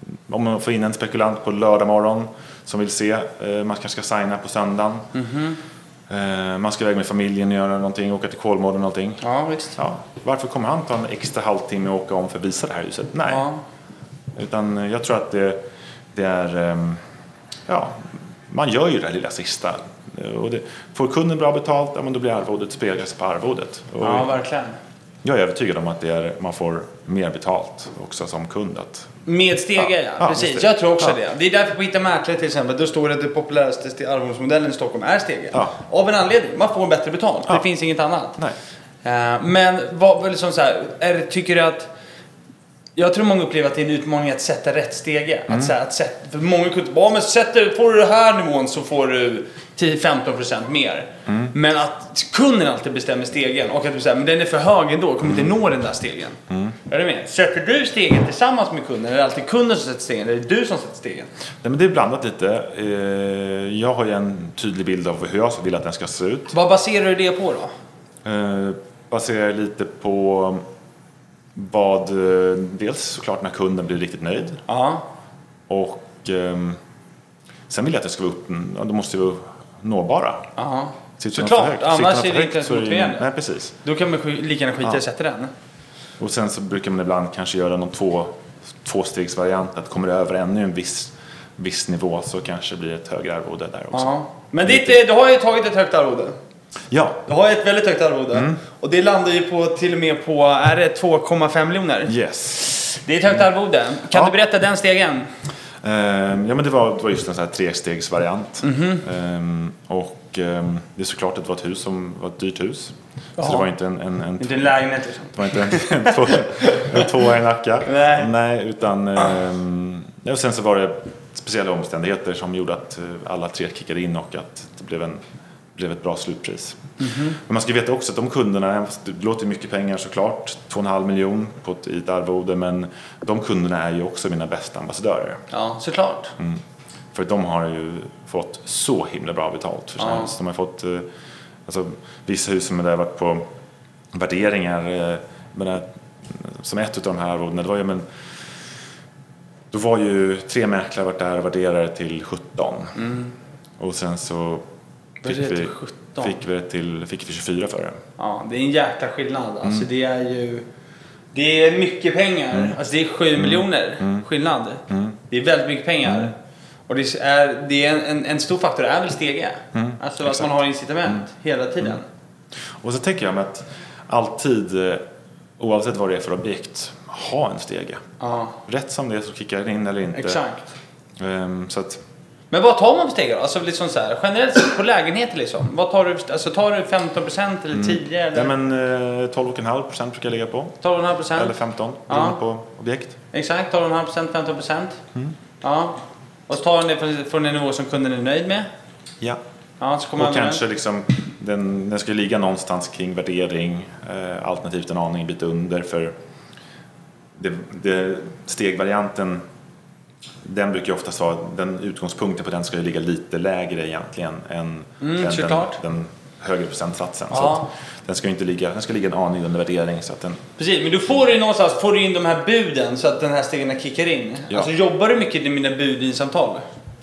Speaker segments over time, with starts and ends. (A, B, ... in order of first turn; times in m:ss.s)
0:00.3-0:05.1 A
0:05.1-0:05.6 B
0:06.1-0:09.2 A
0:09.2-0:09.8 B
0:09.8-0:13.5 A
0:13.3-0:13.6 B
0:14.4-0:15.6 A
0:16.1-0:17.0 A
0:17.7-0:24.4 A
0:24.0-0:24.8 B
0:25.2-0:29.1 A
0:29.3-0:38.4 B
0:29.8-0:31.2 A
0:39.0-0:41.9 B
0:43.0-1:01.3 B
0:51.3-0:51.5 A
0:55.2-0:55.5 A
0:56.5-0:56.8 A
1:01.6-1:06.5 A
1:06.5-1:07.7 B
1:08.2-1:10.6 A
1:11.6-1:14.6 A
1:14.7-1:15.1 B
1:15.7-1:16.8 A
1:17.7-1:20.5 A
1:20.6-1:23.2 B
1:21.2-1:23.8 A
1:23.8-1:25.5 B
1:26.2-1:34.1 A
1:33.9-1:36.4 B
1:34.6-1:35.0 A
1:36.9-1:37.2 A
1:37.3-1:45.3 B
1:38.3-1:38.6 A
1:42.1-1:42.6 A
1:45.8-1:54.7 A
1:48.6-1:49.0 B
1:53.4-1:53.7 B
1:54.4-1:57.3 B
1:55.3-2:05.2 A
1:57.9-1:58.3 B
2:05.8-2:15.4 A
2:07.0-2:07.4 B
2:15.5-2:16.4 B
2:17.1-2:21.1 A
2:20.0-2:20.3 B
2:21.7-2:23.4 A
2:24.1-2:28.0 A
2:29.7-2:33.0 A
2:33.0-2:33.3 B
2:33.8-2:34.6 A
2:35.2-2:36.4 B
2:35.2-2:38.0 A
2:38.2-2:40.6 B
2:39.6-2:39.9 A
2:41.3-2:46.4 B
2:43.4-2:44.2 A
2:44.9-2:45.2 A
2:46.9-2:52.1 B
2:49.7-2:50.5 A
2:52.8-2:55.0 A
2:55.6-2:58.0 A
2:58.2-2:58.6 B
2:58.7-3:00.4 A
3:00.1-3:00.6 B
3:01.2-3:02.0 A
3:02.5-3:08.5 B
3:07.7-3:10.8 A
3:10.8-3:11.6 B
3:11.4-3:13.2 A
3:12.1-3:12.4 B
3:13.3-3:15.0 B
3:15.6-3:16.0 B
3:16.5-3:18.7 B
3:19.8-3:20.6 B
3:20.2-3:26.1 A
3:27.4-3:29.4 A
3:30.4-3:40.4 A
3:35.0-3:35.8 B
3:37.3-3:37.7 B
3:40.6-3:46.6 B